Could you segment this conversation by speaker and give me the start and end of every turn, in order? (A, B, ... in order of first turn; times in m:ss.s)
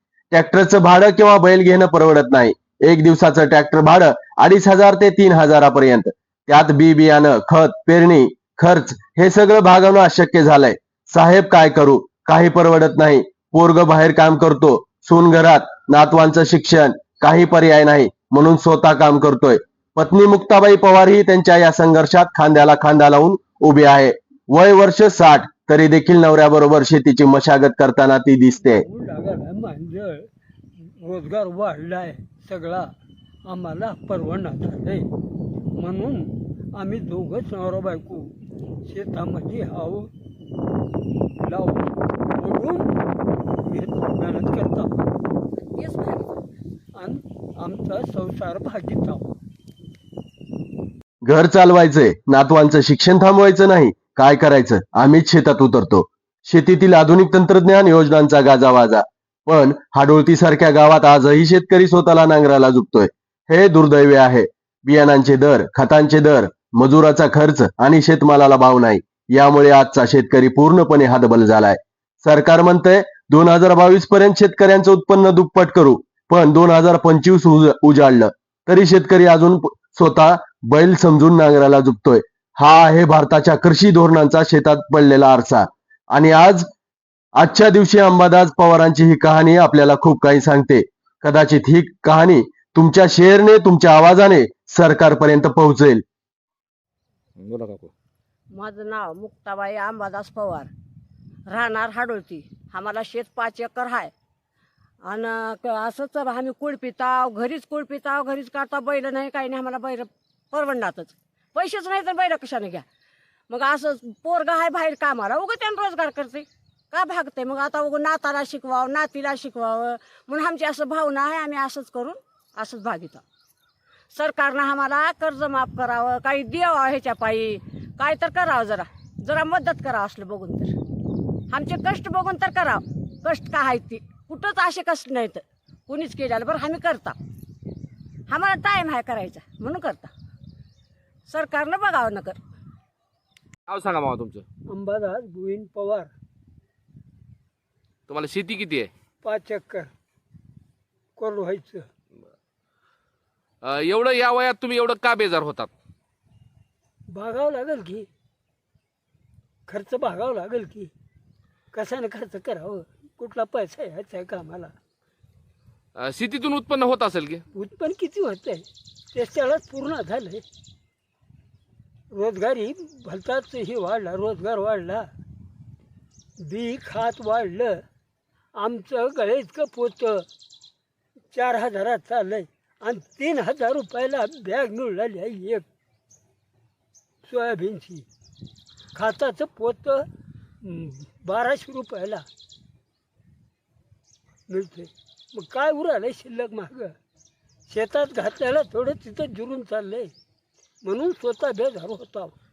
0:00.3-0:28.8 A
0:28.6-0:30.3 B
0:30.8-0:32.9 B
0:33.5-0:35.1 B
0:35.8-0:38.3 B
0:38.9-0:40.1 B
0:41.4-0:42.9 B
0:43.5-0:45.1 B
0:45.7-0:46.4 C
0:47.0-0:49.3 B
0:51.2-1:26.7 A
1:27.4-1:36.0 A
1:37.4-1:37.9 D
1:38.5-1:40.7 C
1:41.5-1:44.1 C
1:45.1-1:52.8 C
1:53.5-2:03.2 C
2:04.1-2:10.8 C
2:11.5-2:17.2 C
2:18.3-2:20.1 C
2:21.3-2:22.4 C
2:23.7-2:24.4 D
2:24.7-2:26.1 B
2:28.1-2:28.9 D
2:29.2-2:29.9 B
2:31.2-2:31.9 B
2:33.6-2:35.7 D
2:37.1-2:38.1 B
2:39.7-2:40.9 B
2:41.7-2:44.7 B
2:46.0-2:47.4 D
2:47.5-2:50.4 B
2:52.1-2:55.1 B
2:56.4-2:57.8 B
2:58.6-3:00.3 B
3:01.3-3:05.6 B
3:07.2-3:08.1 B
3:08.9-3:10.1 B
3:10.6-3:12.2 B
3:14.5-3:17.0 B
3:17.7-3:20.1 B
3:20.8-3:22.3 B